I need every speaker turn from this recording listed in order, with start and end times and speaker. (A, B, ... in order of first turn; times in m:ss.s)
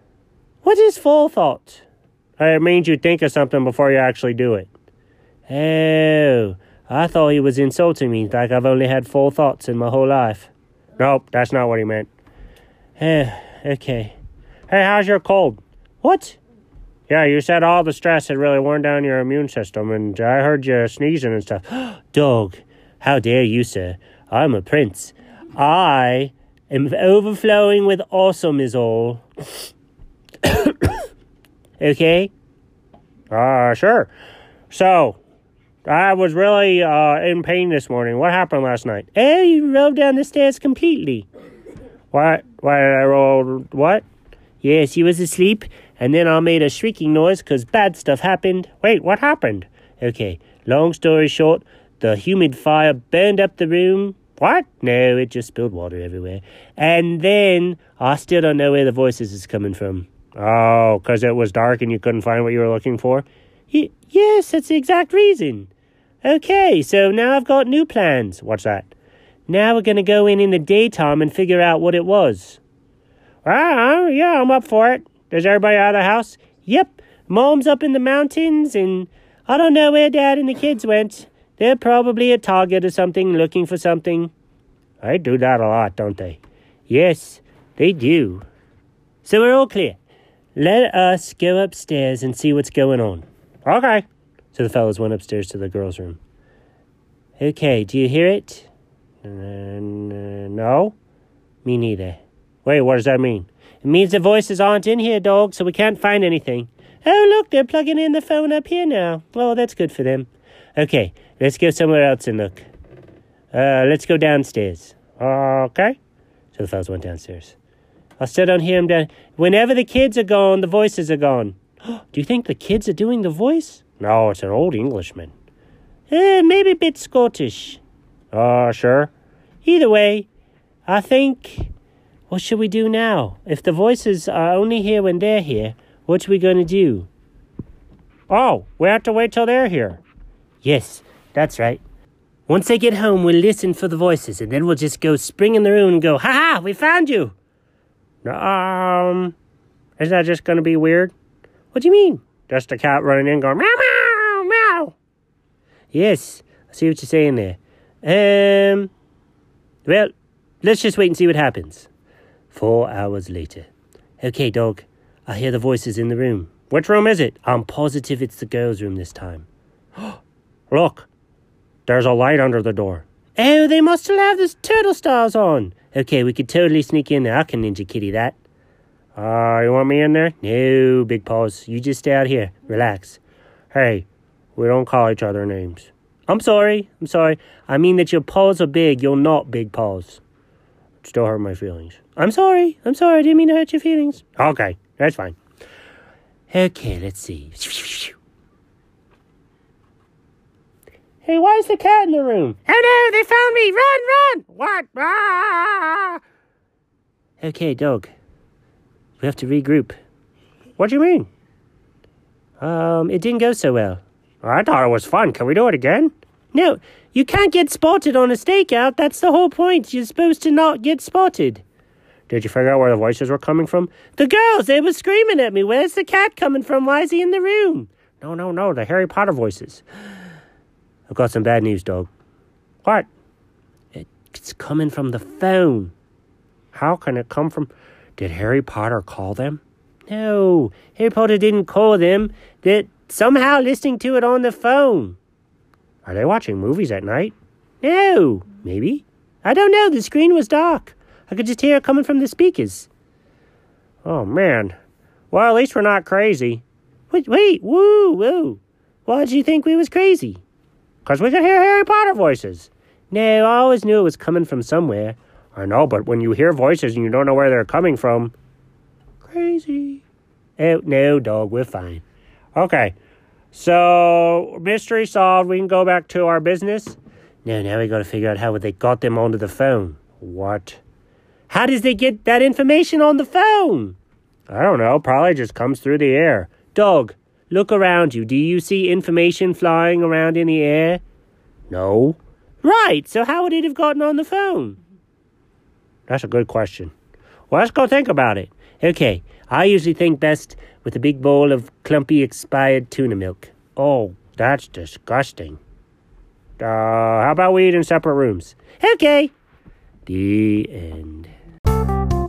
0:00.6-0:01.8 A
0:02.4-0:04.7 A
0:05.5-0:12.1 A
0:13.0-0:14.2 A
0:14.7-0:16.4 A
0:17.1-0:29.2 A
0:30.4-0:31.0 A
0:31.8-0:32.3 A
0:33.3-0:34.1 A
0:34.7-0:35.2 A
0:35.8-0:41.3 A
0:42.1-0:44.0 A
0:44.6-1:05.7 A
1:06.2-1:08.9 A
1:09.5-1:12.6 A
1:13.4-1:24.3 A
1:25.0-1:28.4 A
1:29.2-1:30.0 A
1:30.6-1:36.2 A
1:37.4-1:38.7 A
1:39.2-1:41.0 A
1:41.6-1:52.6 A
1:53.5-1:56.0 A
1:56.5-1:57.6 A
1:58.2-2:05.3 A
2:06.1-2:07.8 A
2:08.3-2:09.1 A
2:09.6-2:10.3 A
2:10.9-2:11.7 A
2:12.3-2:17.1 A
2:18.3-2:20.0 A
2:20.6-2:21.8 A
2:22.5-2:27.4 A
2:28.2-2:29.4 A
2:30.0-2:31.1 A
2:31.7-2:35.0 A
2:35.9-2:38.9 A
2:39.9-2:40.1 A
2:40.6-2:41.9 A
2:42.5-2:43.7 A
2:44.2-2:49.5 A
2:50.7-2:51.1 A
2:51.9-2:58.4 A
2:59.2-3:03.2 A
3:03.7-3:10.2 A
3:11.0-3:15.4 A
3:16.5-3:18.2 A
3:21.2-3:26.2 A
3:27.4-3:28.1 A
3:29.2-3:30.0 A
3:30.8-3:31.3 A
3:32.6-3:41.6 A
3:42.3-3:49.8 A
3:51.1-3:52.1 A
3:52.8-3:53.1 A
3:53.9-3:55.9 A
3:56.7-4:05.2 A
4:06.0-4:12.9 A
4:14.0-4:14.8 A
4:15.3-4:20.4 A
4:21.0-4:28.4 A
4:29.2-4:30.0 A
4:30.6-4:32.0 A
4:32.6-4:33.0 A
4:33.5-4:40.8 A
4:41.5-4:44.0 A
4:44.5-4:51.0 A
4:51.7-4:54.8 A
4:56.1-4:56.9 A
4:57.5-5:05.6 A
5:06.6-5:09.3 A
5:10.1-5:11.3 A